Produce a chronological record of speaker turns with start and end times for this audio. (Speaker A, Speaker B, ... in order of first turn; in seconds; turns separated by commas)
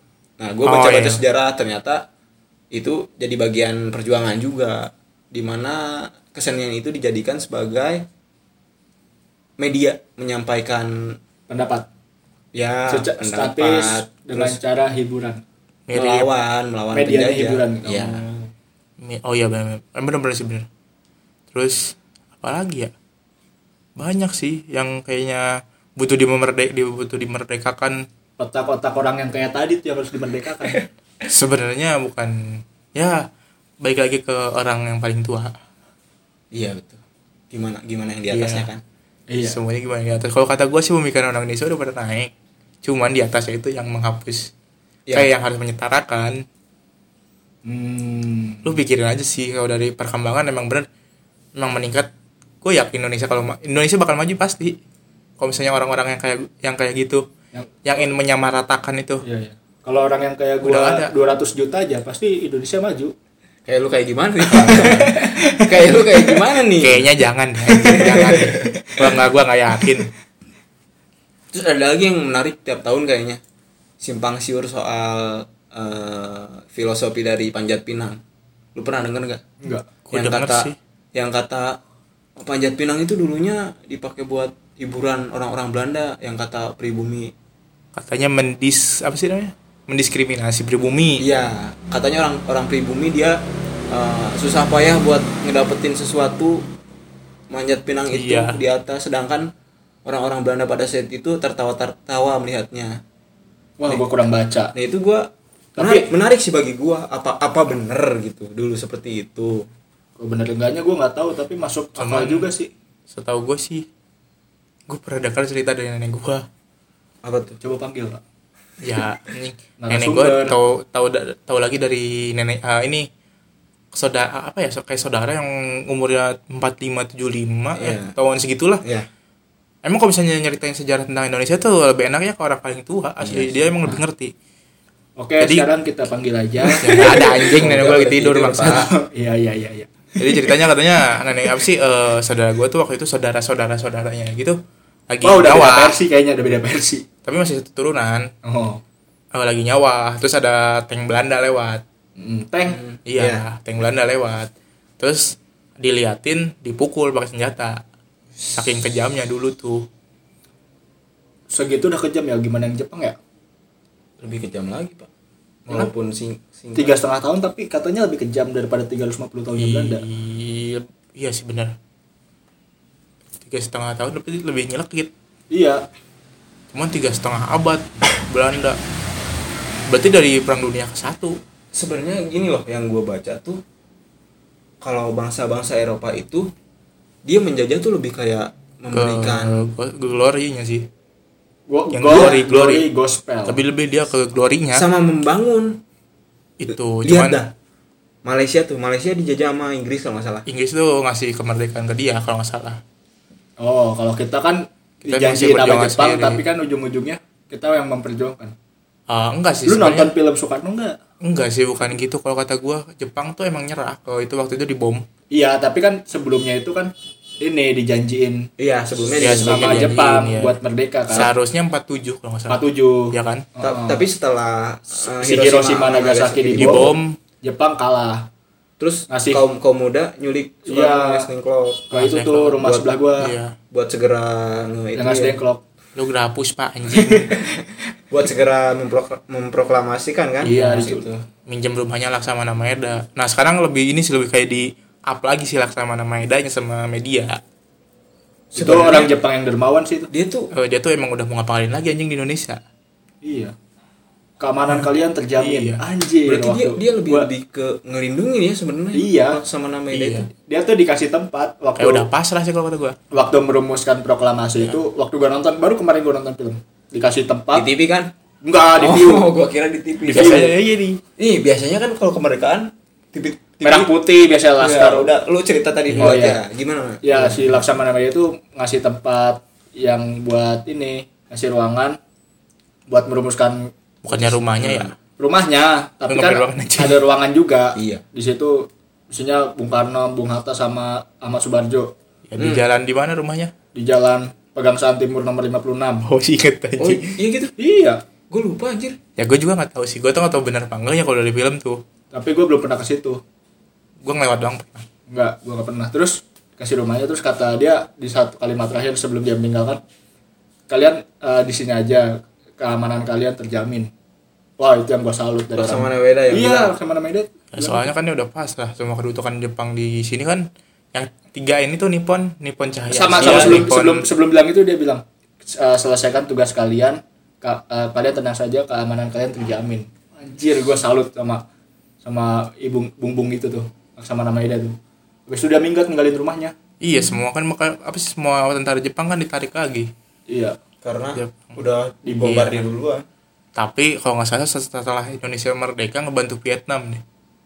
Speaker A: 0.4-2.0, Speaker B: 0.7-1.2, Speaker A: 2.7-8.1, Speaker A: 9.6-11.2, Speaker C: 11.5-11.9, Speaker A: 12.5-14.6, Speaker C: 12.9-15.4, Speaker B: 15.9-16.3, Speaker A: 15.9-18.3, Speaker C: 16.9-18.3, Speaker B: 19.0-20.7, Speaker B: 21.5-22.9, Speaker B: 24.0-28.0, Speaker C: 28.4-30.8, Speaker B: 31.3-33.2, Speaker B: 33.8-35.5, Speaker A: 36.5-38.8, Speaker B: 38.3-38.7, Speaker C: 39.3-39.6, Speaker B: 39.4-42.3, Speaker B: 42.8-44.5, Speaker B: 45.1-46.4, Speaker C: 47.6-48.8, Speaker B: 48.6-50.9, Speaker B: 51.6-52.1, Speaker B: 52.6-54.8, Speaker B: 55.4-57.2, Speaker B: 57.9-59.2, Speaker C: 59.2-63.1, Speaker B: 60.6-61.1, Speaker A: 63.7-67.1, Speaker C: 64.5-66.1, Speaker B: 66.8-70.1, Speaker A: 67.8-68.7, Speaker A: 71.5-73.4, Speaker A: 74.0-78.2, Speaker A: 78.8-79.4, Speaker B: 80.1-80.8, Speaker A: 80.1-81.8, Speaker A: 82.4-87.3, Speaker B: 88.0-91.2, Speaker A: 91.2-96.7, Speaker A: 97.5-99.5, Speaker B: 98.1-98.6, Speaker A: 100.0-103.0, Speaker C: 103.8-104.7, Speaker A: 104.7-109.7, Speaker C: 105.8-106.1, Speaker C: 110.2-112.7, Speaker B: 112.0-112.5, Speaker B: 113.1-113.8, Speaker B: 114.9-116.5, Speaker A: 117.2-117.6, Speaker C: 117.6-118.2, Speaker B: 118.8-123.1, Speaker C: 119.8-120.5, Speaker B: 123.9-128.8, Speaker A: 127.8-128.2, Speaker B: 129.8-134.3, Speaker A: 133.2-133.9, Speaker C: 135.2-137.7, Speaker B: 135.4-135.7, Speaker B: 136.8-138.9, Speaker A: 136.8-138.9, Speaker C: 138.7-140.5, Speaker B: 140.2-144.6, Speaker B: 145.1-146.0, Speaker C: 145.2-147.1, Speaker B: 147.2-148.3, Speaker C: 148.4-148.8, Speaker B: 149.3-151.8, Speaker C: 152.2-152.8, Speaker A: 152.7-153.4, Speaker B: 153.1-157.8, Speaker B: 158.5-159.9, Speaker C: 161.5-163.2, Speaker A: 164.2-165.1, Speaker A: 165.7-167.0, Speaker C: 166.8-170.0, Speaker B: 169.6-171.7, Speaker B: 173.4-175.1, Speaker C: 175.5-175.8, Speaker B: 176.7-178.8, Speaker B: 179.9-181.4, Speaker A: 181.8-183.6, Speaker A: 184.8-186.5, Speaker A: 187.2-189.6, Speaker B: 188.9-190.9, Speaker C: 191.7-193.6, Speaker B: 191.9-192.8, Speaker B: 193.5-194.8, Speaker A: 194.7-195.8, Speaker B: 196.6-197.4, Speaker A: 196.7-197.5, Speaker A: 198.2-200.5, Speaker B: 200.5-202.8, Speaker C: 203.6-208.5, Speaker B: 205.1-206.4, Speaker B: 209.1-210.1, Speaker C: 209.7-211.0, Speaker B: 211.2-215.1, Speaker C: 215.3-218.5, Speaker A: 218.6-219.9, Speaker B: 219.2-220.6, Speaker C: 219.3-221.3, Speaker B: 221.1-223.5, Speaker C: 222.5-224.0, Speaker A: 223.6-227.0, Speaker C: 225.2-226.9, Speaker B: 226.6-227.2, Speaker C: 227.4-228.3, Speaker A: 228.8-231.9, Speaker C: 229.1-229.4, Speaker C: 230.7-231.3, Speaker C: 231.9-233.3, Speaker B: 231.9-233.6, Speaker A: 233.7-235.4, Speaker C: 235.0-235.6, Speaker B: 236.0-237.4, Speaker A: 238.1-241.3, Speaker C: 240.4-241.1, Speaker B: 240.4-240.8, Speaker B: 241.5-247.4, Speaker C: 248.5-250.1, Speaker A: 248.6-249.1, Speaker A: 250.1-250.5, Speaker B: 250.5-252.6, Speaker C: 253.2-253.5, Speaker C: 254.4-257.3, Speaker B: 255.4-255.8, Speaker A: 256.3-260.3, Speaker C: 258.9-259.4, Speaker B: 259.9-260.3, Speaker C: 260.5-262.1, Speaker B: 261.8-263.0, Speaker C: 263.1-267.7, Speaker A: 267.5-268.1, Speaker C: 268.4-269.3, Speaker A: 268.8-270.5, Speaker B: 270.1-271.0, Speaker C: 270.1-270.5, Speaker A: 271.2-273.9, Speaker C: 273.6-275.1, Speaker A: 274.6-277.6, Speaker C: 276.0-276.4, Speaker C: 277.0-282.0, Speaker C: 282.9-283.7, Speaker B: 284.0-284.9, Speaker A: 284.1-285.0, Speaker C: 285.2-291.9, Speaker B: 286.1-287.0, Speaker A: 287.8-288.0, Speaker B: 292.3-293.5, Speaker A: 292.4-292.6, Speaker C: 293.8-296.1, Speaker B: 296.1-297.1, Speaker A: 296.8-297.5, Speaker C: 297.6-298.0, Speaker A: 298.3-299.0, Speaker B: 299.2-301.8, Speaker C: 302.1-303.2, Speaker B: 304.0-304.9, Speaker C: 305.1-309.8, Speaker C: 310.7-313.9, Speaker C: 314.6-317.9, Speaker A: 315.6-316.7, Speaker B: 317.5-324.1, Speaker C: 322.9-331.4, Speaker A: 323.2-323.7, Speaker C: 332.0-334.8, Speaker C: 335.3-336.6, Speaker B: 336.8-339.9, Speaker C: 340.3-340.6, Speaker A: 340.8-343.1, Speaker B: 341.2-341.5, Speaker B: 342.1-342.7, Speaker B: 343.6-347.0